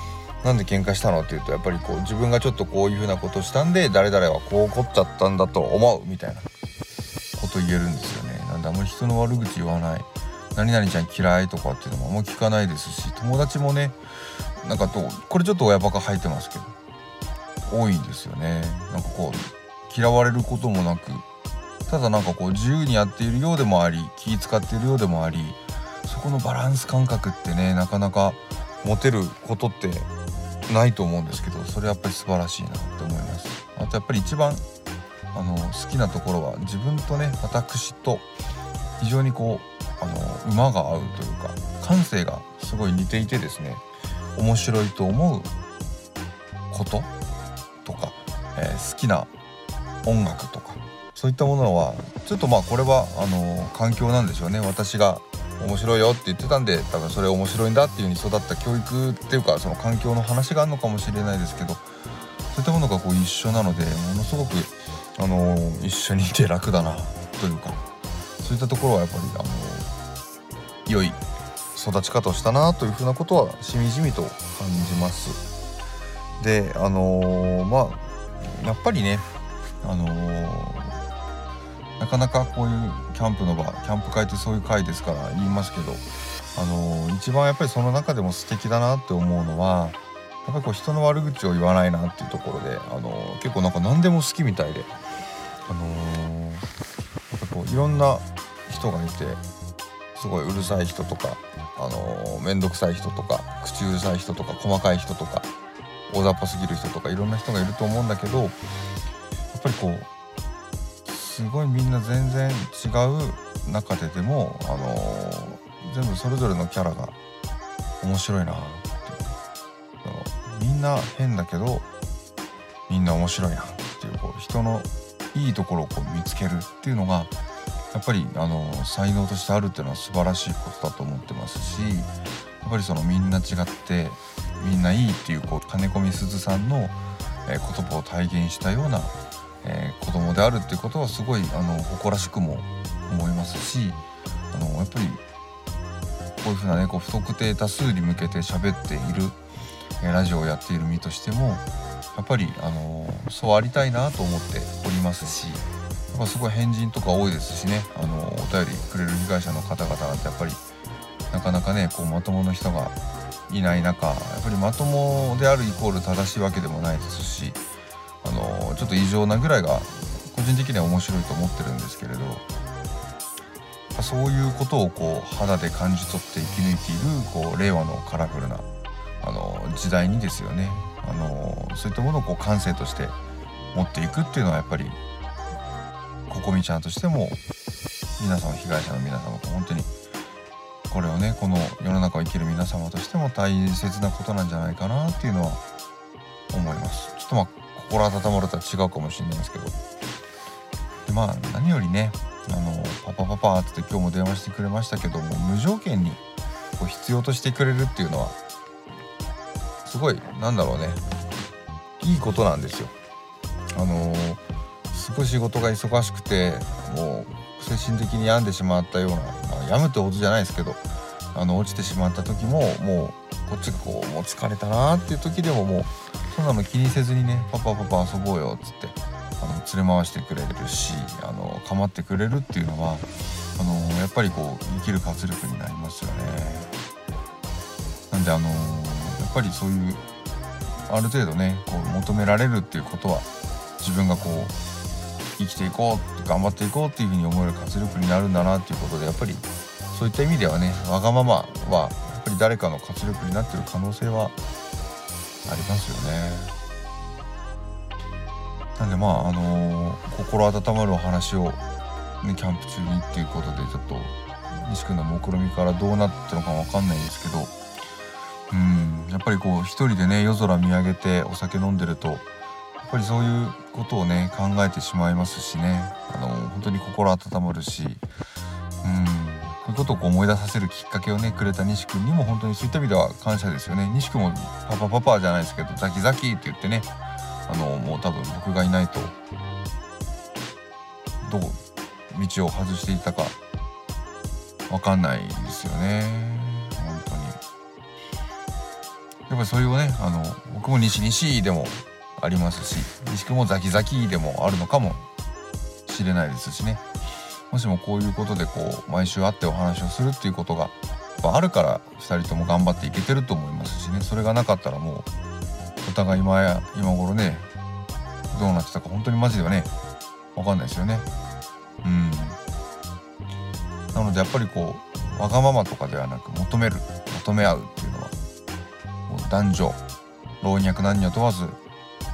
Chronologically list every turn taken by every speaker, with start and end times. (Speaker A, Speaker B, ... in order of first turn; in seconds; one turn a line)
Speaker A: 0.4-6.5
Speaker A: 7.3-14.0
Speaker A: 14.6-16.7
Speaker A: 17.7-21.2
Speaker A: 21.9-30.1
Speaker A: 30.7-34.6
Speaker A: 35.3-38.2
Speaker A: 39.0-43.8
Speaker A: 44.4-45.5
Speaker A: 46.7-47.1
Speaker A: 47.8-49.3
Speaker A: 50.0-61.9
Speaker A: 62.5-67.8
Speaker A: 68.4-69.9
Speaker A: 70.8-71.2
Speaker A: 71.7-75.4
Speaker A: 76.4-79.3
Speaker A: 79.8-81.0
Speaker A: 82.0-86.0
Speaker A: 86.5-94.9
Speaker A: 95.7-96.7
Speaker A: 97.3-99.4
Speaker A: 100.1-105.5
Speaker A: 106.1-108.5
Speaker A: 109.5-110.1
Speaker A: 111.0-117.1
Speaker A: 118.0-119.3
Speaker A: 120.0-121.8
Speaker A: 122.9-127.3
Speaker A: 127.9-132.1
Speaker A: 132.6-144.0
Speaker A: 144.5-145.2
Speaker A: 146.4-149.4
Speaker A: 150.0-155.6
Speaker A: 156.1-160.6
Speaker A: 161.3-162.9
Speaker A: 163.5-167.6
Speaker A: 168.2-172.4
Speaker A: 173.9-178.7
Speaker A: 179.2-183.1
Speaker A: 183.7-185.0
Speaker A: 186.3-187.4
Speaker A: 188.2-189.9
Speaker A: 190.9-195.6
Speaker A: 196.5-199.7
Speaker A: 201.0-206.2
Speaker A: 206.8-208.3
Speaker A: 209.8-211.0
Speaker A: 212.0-212.9
Speaker A: 213.7-220.8
Speaker A: 221.3-236.7
Speaker A: 238.1-240.0
Speaker A: 240.9-243.3
Speaker A: 243.8-244.5
Speaker A: 245.4-254.3
Speaker A: 255.4-256.5
Speaker A: 258.8-261.6
Speaker A: 262.2-267.5
Speaker A: 268.5-272.2
Speaker A: 272.8-278.0
Speaker A: 278.8-286.9
Speaker A: 287.5-289.1
Speaker A: 291.2-291.6
Speaker A: 292.1-293.3
Speaker A: 294.7-297.4
Speaker A: 299.3-305.0
Speaker A: 305.9-306.8
Speaker A: 307.5-315.1
Speaker A: 315.8-317.5
Speaker A: 318.3-319.7
Speaker A: 320.3-321.1
Speaker A: 321.8-322.4
Speaker A: 323.9-328.1
Speaker A: 329.1-329.8
Speaker A: 330.4-331.6